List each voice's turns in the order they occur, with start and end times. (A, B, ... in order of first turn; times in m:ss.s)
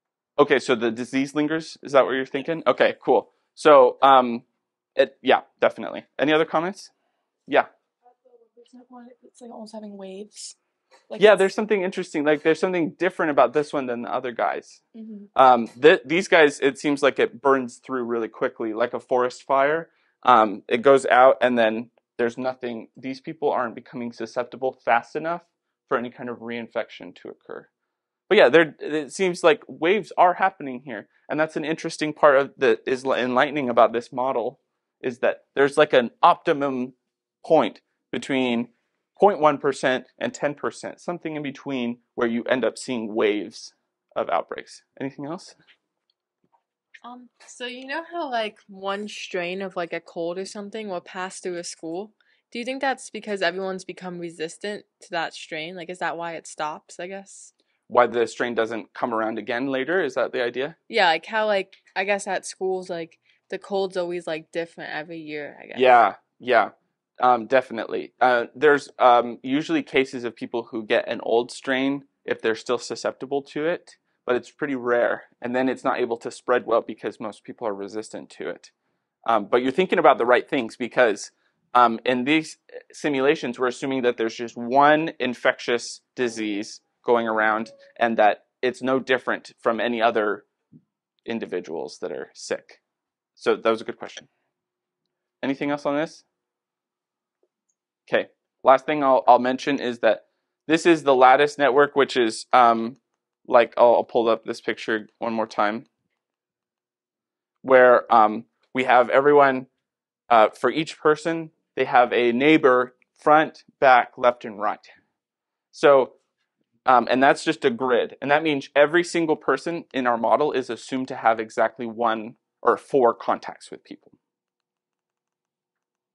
0:00.4-0:04.4 A
0:05.0-0:06.9 A
0:08.4-0:10.5 B
0:11.1-0:11.5 B
0:11.2-0:14.8 A
0:14.9-0:15.3 B
0:15.3-0:27.7 A
0:28.3-0:45.6 A
0:47.0-0:57.5 C
0:57.9-1:00.8 A
1:00.9-1:06.0 C
1:05.7-1:18.7 A
1:19.2-1:30.4 A
1:31.2-1:32.8 A
1:33.4-1:34.3 A
1:35.4-1:36.2 A
1:38.1-1:45.8 A
1:47.6-1:49.7 A
1:50.3-1:54.9 A
1:55.7-1:56.1 A
1:56.8-2:04.1 A